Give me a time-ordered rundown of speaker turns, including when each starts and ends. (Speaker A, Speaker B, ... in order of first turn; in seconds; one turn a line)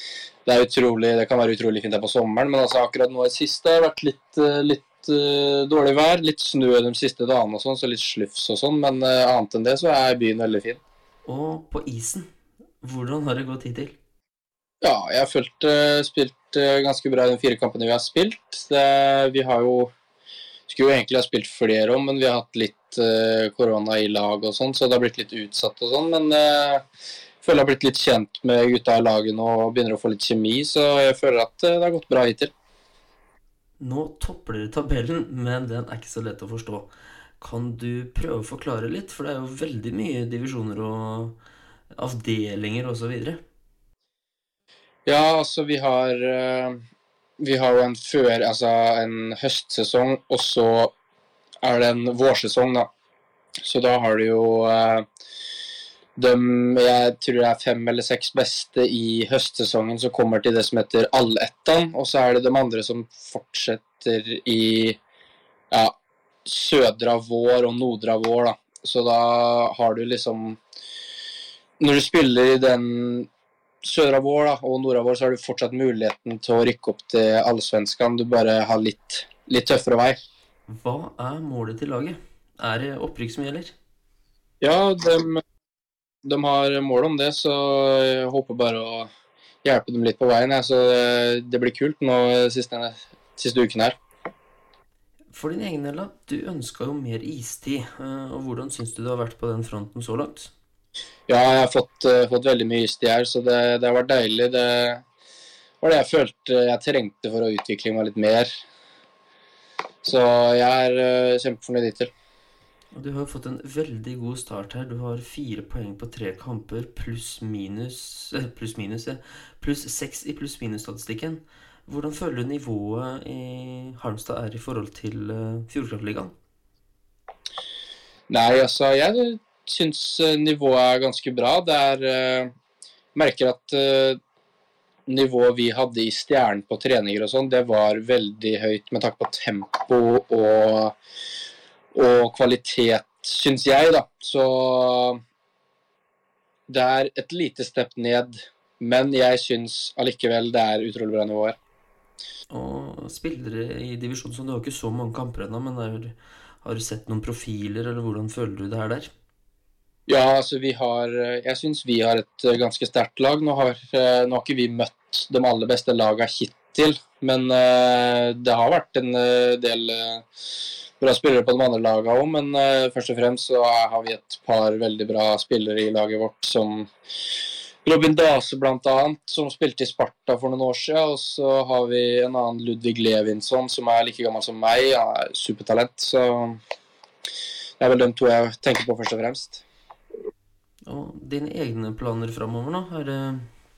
Speaker A: 0.5-10.8
Speaker B: 11.2-12.3
Speaker B: 12.8-13.9
Speaker A: 14.8-19.9
Speaker A: 20.7-26.8
Speaker A: 27.4-32.5
Speaker B: 33.8-41.4
Speaker B: 41.9-43.4
Speaker A: 45.0-46.8
Speaker A: 47.4-50.9
Speaker A: 51.6-52.9
Speaker A: 53.6-55.0
Speaker A: 56.1-65.0
Speaker A: 65.7-70.6
Speaker A: 71.8-73.3
Speaker A: 73.8-80.2
Speaker B: 80.7-83.7
Speaker A: 84.6-85.4
Speaker A: 86.2-89.1
Speaker A: 89.6-94.0
Speaker B: 95.3-100.5
Speaker A: 101.3-105.0
Speaker A: 105.8-108.5
Speaker A: 110.0-112.1
Speaker B: 112.9-126.3
Speaker A: 128.3-132.5
Speaker A: 133.1-134.2
Speaker A: 135.1-141.0
Speaker A: 141.9-145.2
Speaker A: 146.7-151.6
Speaker B: 152.5-159.1
Speaker A: 160.1-170.2
Speaker A: 171.0-176.9
Speaker A: 177.8-186.6
Speaker A: 187.8-189.6
Speaker B: 190.8-193.5